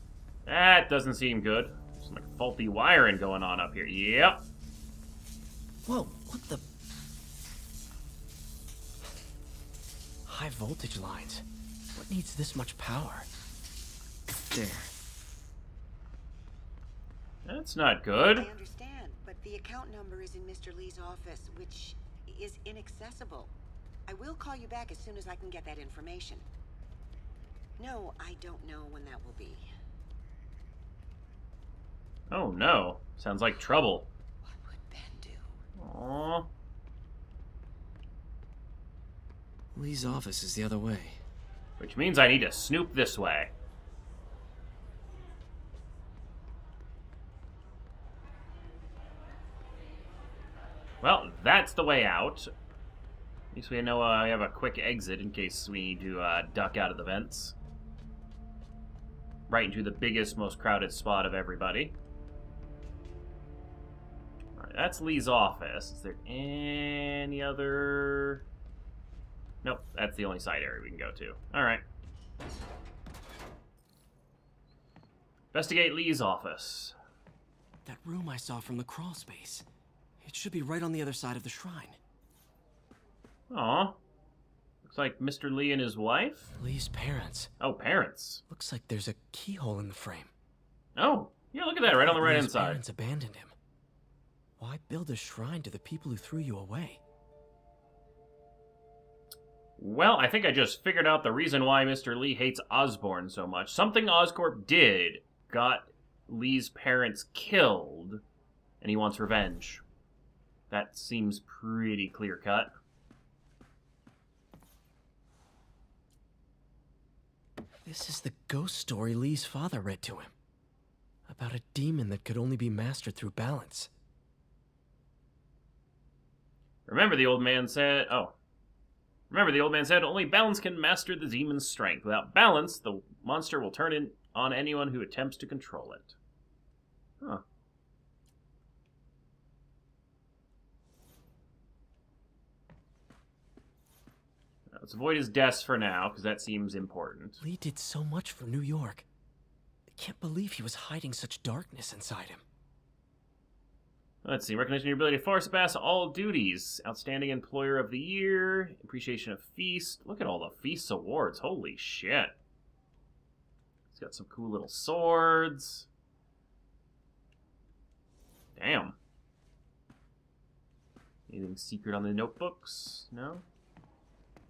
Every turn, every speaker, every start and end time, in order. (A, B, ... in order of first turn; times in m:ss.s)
0:00.4-0:04.4 A
0:05.8-0:06.6 B
0:10.2-0:13.3 B
0:14.5-0:14.9 B
0:17.4-0:18.5 A
0:18.3-0:23.5 C
0:24.1-0:26.4 C
0:27.8-0:29.7 C
0:32.3-0:34.1 A
0:34.5-0:35.6 C
0:35.8-0:36.5 A
0:39.7-0:41.2 B
0:41.8-0:43.5 A
0:51.0-0:52.5 A
0:53.5-0:57.5 A
0:59.5-1:02.0 A
1:04.6-1:08.4 A
1:09.6-1:11.8 A
1:15.5-1:17.0 A
1:17.8-1:19.7 B
1:20.2-1:22.0 B
1:23.5-1:24.0 A
1:24.8-1:26.5 A
1:26.5-1:27.5 B
1:27.6-1:28.4 A
1:28.5-1:30.3 B
1:31.0-1:32.8 A
1:31.8-1:33.5 B
1:34.6-1:37.0 B
1:39.8-1:48.2 A
1:48.8-1:49.8 A
1:50.7-1:52.7 A
1:57.8-2:00.3 B
2:01.3-2:03.9 B
2:06.9-2:08.3 A
2:09.3-2:16.2 A
2:24.7-2:27.4 A
2:27.4-2:29.0 B
2:29.9-2:32.4 B
2:34.2-2:42.3 A
2:43.9-2:45.9 A
2:48.6-2:49.0 A
2:51.3-2:53.4 A